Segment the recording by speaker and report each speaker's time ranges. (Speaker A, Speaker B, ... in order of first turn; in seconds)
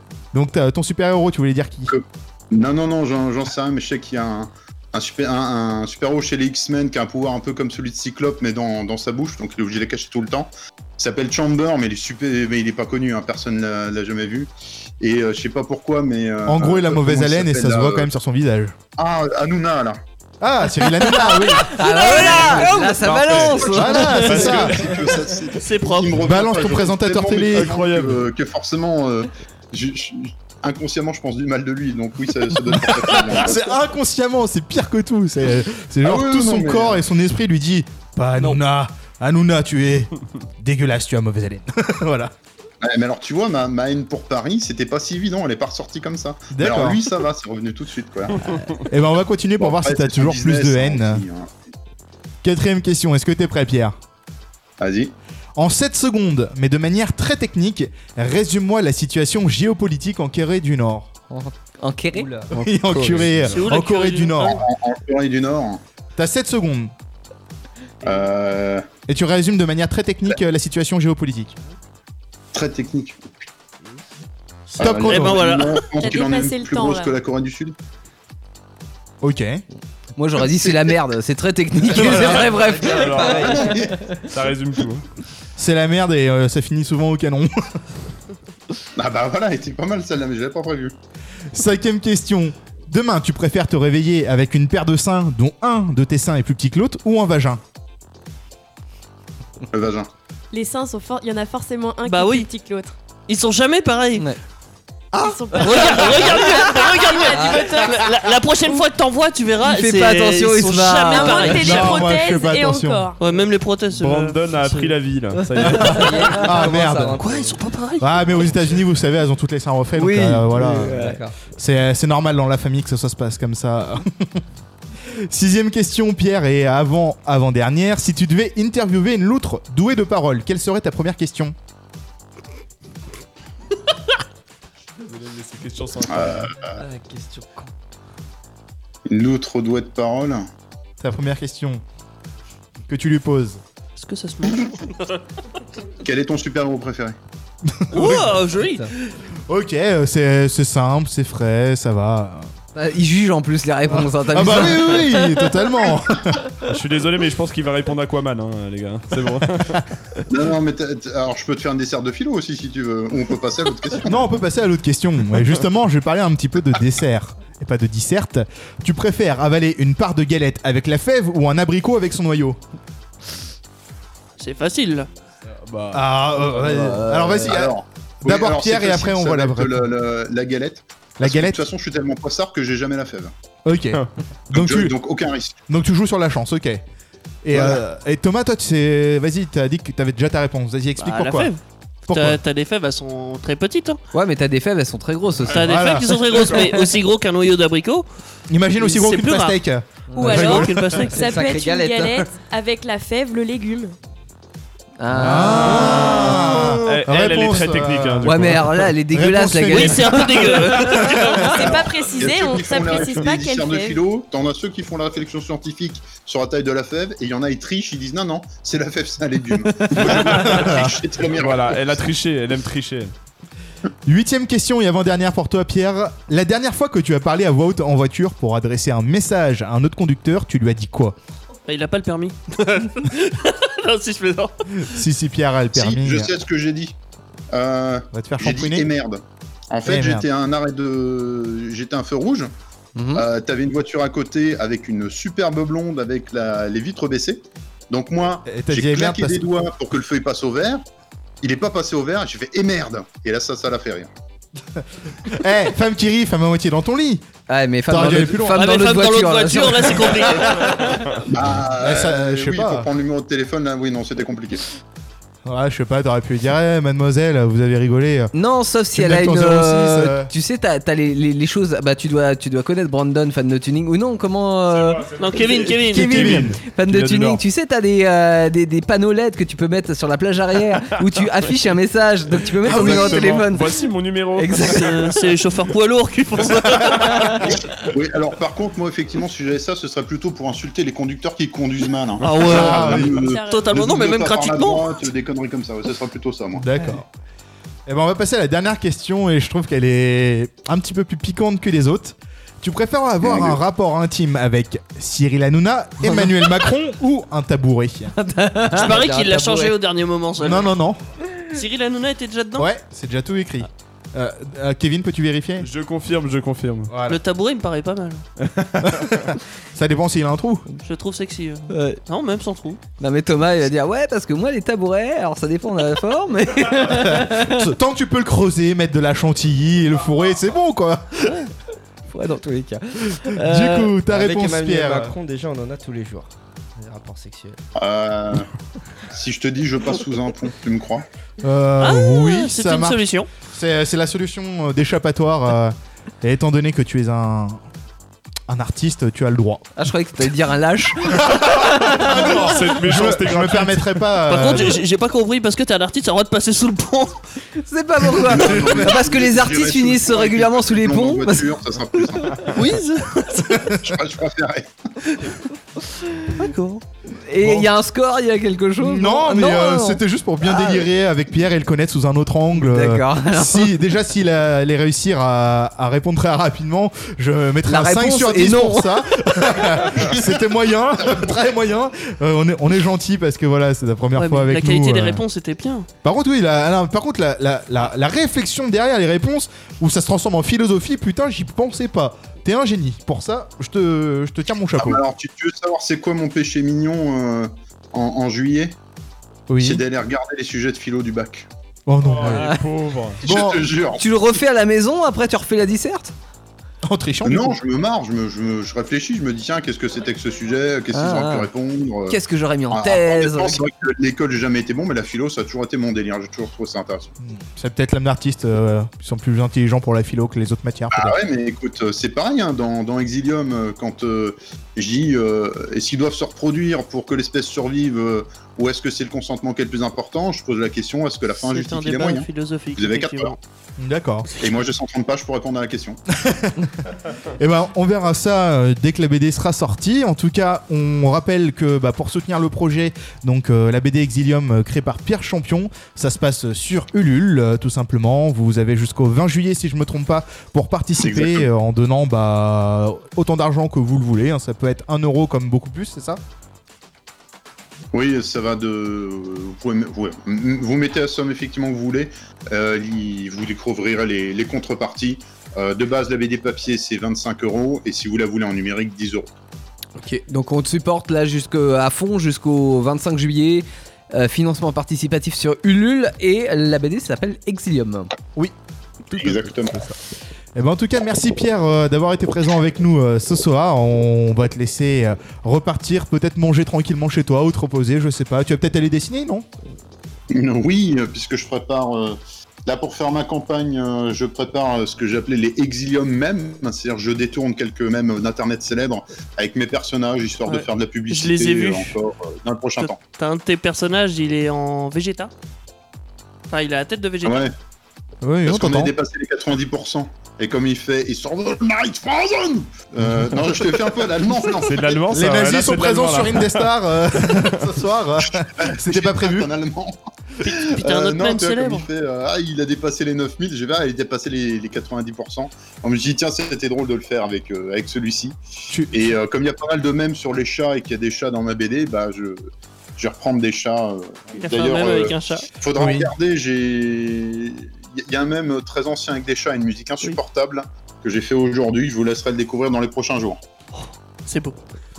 Speaker A: 0.3-1.9, 16.4-18.8, 20.4-21.7, 23.7-24.9, 26.2-27.8, 32.7-42.3, 46.5-47.0, 48.8-51.2, 52.4-54.0, 55.5-61.1, 62.5-64.6, 66.2-66.9, 69.1-71.5, 74.8-75.5, 79.2-79.6, 81.9-82.6, 85.5-87.8, 91.5-97.6, 111.6-113.1, 116.4-117.2, 118.0-124.4, 125.0-131.5, 141.0-141.8, 142.9-143.6, 147.7-148.4, 149.5-152.5, 154.2-156.5, 164.0-172.6, 175.9-179.9, 181.2-181.6, 183.7-184.9, 185.7-186.8, 187.4-191.5, 192.1-192.4, 195.6-196.7, 198.5-200.7, 205.1-211.5, 220.0-221.0, 224.1-231.2, 234.7-236.3, 238.1-238.9, 239.8-240.3, 248.4-249.5, 255.2-257.2, 257.9-258.6, 261.8-262.9, 265.4-268.3, 268.9-270.3, 275.9-276.6, 282.6-283.4, 292.4-293.1, 296.6-297.1, 297.9-308.1, 310.4-311.0, 312.6-315.7, 316.9-317.2, 318.8-320.6, 326.9-331.4, 333.4-335.1, 341.4-343.0, 343.5-347.6, 348.5-349.7, 351.0-354.8, 367.4-367.7, 368.8-385.2, 386.0-395.0, 399.5-399.8, 401.9-402.6, 403.2-403.7, 406.8-407.6, 417.2-421.2, 433.8-434.3, 436.1-436.7, 437.4-456.2, 480.5-489.5, 508.2-508.9, 515.1-519.5, 528.7-529.2, 535.7-536.1
Speaker B: 1.9-18.1, 18.9-20.0, 23.2-33.6, 36.0-37.0, 42.8-48.5, 49.6-51.5, 54.8-55.1, 64.5-65.8, 68.0-68.8, 72.5-73.2, 74.8-77.7, 80.4-81.0, 89.0-90.9, 99.7-100.1, 136.1-136.8, 139.1-140.4, 146.0-147.2, 160.3-164.3, 177.4-183.3, 184.5-185.6, 187.5-187.8, 211.5-222.0, 235.7-236.9, 237.5-242.5, 243.1-250.8, 251.4-254.1, 261.3-264.6, 287.4-296.7, 303.2-303.6, 337.8-338.5, 339.1-341.1, 358.1-362.7, 363.8-364.7, 394.8-398.8, 399.6-401.5, 403.2-404.0, 407.2-412.2, 412.7-417.1, 420.9-433.3, 434.3-436.0, 451.0-451.5, 457.9-469.3, 479.1-479.8, 490.3-503.0, 507.2-507.5, 508.4-515.1, 518.2-528.4, 528.9-543.4
Speaker C: 21.1-24.6, 61.3-63.2, 80.2-83.9, 105.1-106.7, 107.3-107.7, 109.6-111.7, 115.5-117.2, 120.0-121.3, 152.7-155.2, 176.5-177.6, 194.1-195.7, 200.1-202.3, 205.0-206.6, 208.2-211.1, 242.9-243.2, 257.5-260.6, 268.3-283.7, 284.3-285.0, 306.0-306.5, 308.1-309.7, 321.7-322.0, 323.0-327.7, 332.1-333.9, 349.8-352.5, 357.6-362.3, 367.2-370.0, 372.6-373.7, 377.6-379.1, 402.2-402.6, 403.9-406.1, 410.9-411.5, 412.1-413.6, 470.0-478.1
Speaker D: 21.8-23.0, 25.5-26.2, 63.5-64.6, 74.7-75.9, 102.0-102.5, 103.3-104.2, 105.6-112.1, 113.2-114.9, 117.2-118.5, 143.9-145.2, 147.9-148.9, 174.4-175.1, 191.0-191.6, 192.1-194.0, 195.5-198.1, 198.8-199.6, 200.2-201.3, 206.4-207.0, 209.7-211.6, 231.7-234.8, 258.5-261.0, 275.2-276.3, 284.6-287.5, 292.2-295.0, 308.7-310.7, 311.5-312.7, 317.1-318.2, 320.8-322.8, 341.8-343.3, 354.3-357.2, 362.5-363.9, 366.3-366.8, 384.2-385.9, 431.4-433.4, 500.5-501.9, 502.8-505.3, 506.5-507.5, 520.4-521.9, 534.4-535.5, 544.2-544.6
Speaker E: 23.0-25.0, 27.5-28.2, 63.2-63.6, 82.1-85.0, 113.9-116.4, 135.0-136.5, 156.6-159.8, 175.4-176.1, 196.3-196.6, 205.3-206.2, 206.8-208.9, 220.1-220.7, 221.2-223.1, 274.7-277.4, 282.6-285.1, 315.6-316.9, 318.4-319.3, 351.9-353.9, 402.0-403.2, 514.5-516.7
Speaker F: 62.1-62.5, 115.6-117.6, 136.8-137.7, 334.1-337.6
Speaker G: 76.0-77.1, 100.5-102.9, 105.2-108.8, 111.1-113.2, 200.2-203.9, 210.9-214.0, 292.7-293.8